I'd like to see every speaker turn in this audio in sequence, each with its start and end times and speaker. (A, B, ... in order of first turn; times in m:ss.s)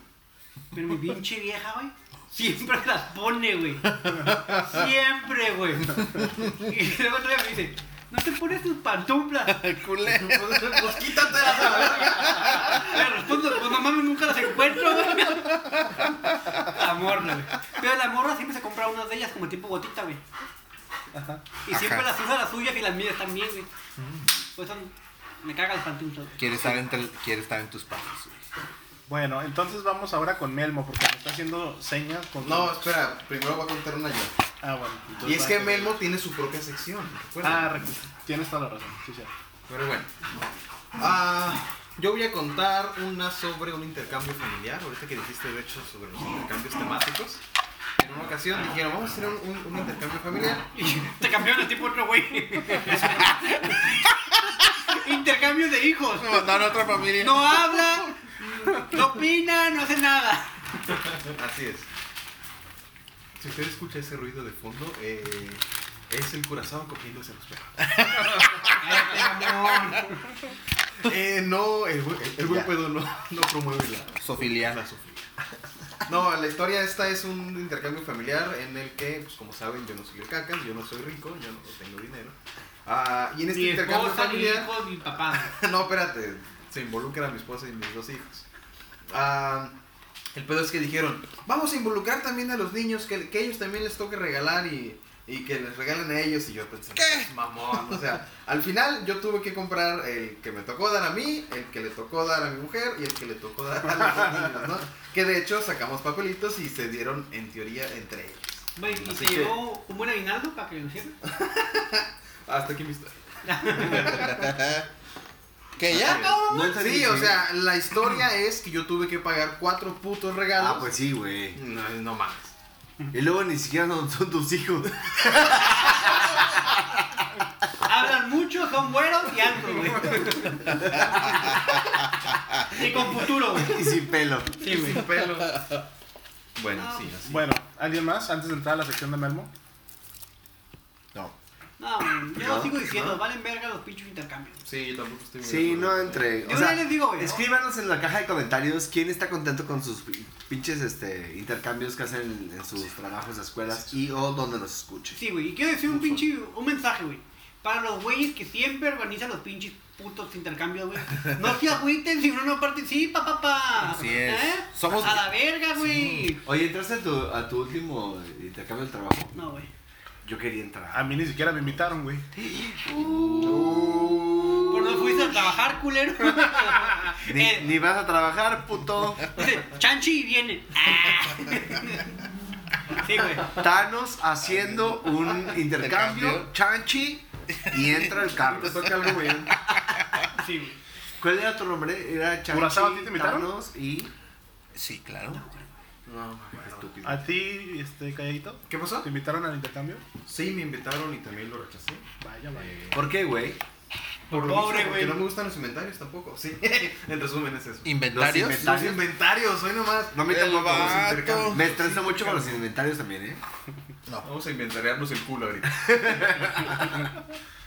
0:00.7-0:09.7 A
0:03.9-0:04.7 B
0:09.4-0:13.0 B
0:10.1-0:12.7 C
0:11.6-0:15.6 A
0:14.9-0:16.8 B
0:16.6-0:20.2 A
0:21.1-0:21.4 D
0:21.7-0:23.7 A
0:21.7-0:22.1 B
0:24.0-0:24.4 B
0:24.6-0:26.4 A
0:26.4-0:28.4 B
0:29.1-0:32.8 D
0:32.4-0:34.3 C
0:34.6-0:36.0 D
0:35.2-0:37.8 C
0:37.4-0:39.3 D
0:39.7-0:40.1 C
0:41.0-0:47.4 C
0:48.0-0:50.7 C
0:50.8-0:54.0 A
0:54.8-0:58.2 A
0:56.2-0:58.0 B
0:58.7-1:00.5 A
1:01.1-1:01.9 C
1:03.4-1:07.7 C
1:08.0-1:08.8 B
1:08.8-1:10.2 A
1:11.0-1:15.3 C
1:12.4-1:12.7 E
1:14.2-1:14.8 B
1:16.1-1:24.8 C
1:23.5-1:25.6 A
1:25.3-1:28.4 C
1:29.1-1:29.8 C
1:30.3-1:49.6 C
1:37.0-1:37.3 B
1:48.8-1:51.1 A
1:51.2-1:54.6 C
1:53.4-1:54.3 A
1:53.9-1:54.8 B
1:55.8-1:56.4 B
1:55.9-2:00.9 C
1:56.0-1:57.4 E
1:56.1-1:56.4 A
2:00.6-2:01.6 E
2:01.6-2:02.5 C
2:03.1-2:06.6 E
2:07.8-2:11.6 A
2:10.7-2:11.8 B
2:12.7-2:13.9 A
2:13.5-2:14.6 E
2:14.6-2:15.1 A
2:14.6-2:15.7 C
2:15.2-2:15.8 B
2:16.6-2:17.5 C
2:16.8-2:17.1 A
2:17.3-2:19.5 D
2:21.8-2:24.6 A
2:22.4-2:22.9 E
2:24.6-2:26.3 C
2:25.4-2:35.2 E
2:26.4-2:27.4 A
2:35.1-2:46.4 A
2:43.8-2:46.3 B
2:46.4-2:49.3 E
2:49.3-2:49.7 A
2:50.2-2:51.3 E
2:50.9-2:52.3 D
2:52.4-2:55.3 E
2:53.1-2:53.8 B
2:54.7-2:57.7 A
2:57.2-2:59.3 E
2:59.3-3:02.1 A
3:02.9-3:03.6 A
3:03.5-3:09.5 E
3:04.6-3:05.0 B
3:05.6-3:06.5 B
3:07.7-3:10.3 B
3:08.5-3:09.5 C
3:10.3-3:10.8 A
3:11.2-3:14.1 E
3:12.5-3:13.5 D
3:14.8-3:15.4 B
3:15.3-3:15.7 A
3:16.1-3:17.1 C
3:16.6-3:17.2 B
3:17.0-3:20.0 D
3:18.7-3:19.1 C
3:20.2-3:23.0 C
3:22.2-3:22.8 D
3:22.9-3:23.6 E
3:24.3-3:25.2 A
3:24.3-3:27.9 C
3:27.8-3:28.9 B
3:28.1-3:29.0 E
3:28.4-3:32.5 C
3:30.1-3:33.4 E
3:30.3-3:31.7 B
3:34.2-3:36.4 C
3:35.8-3:36.8 E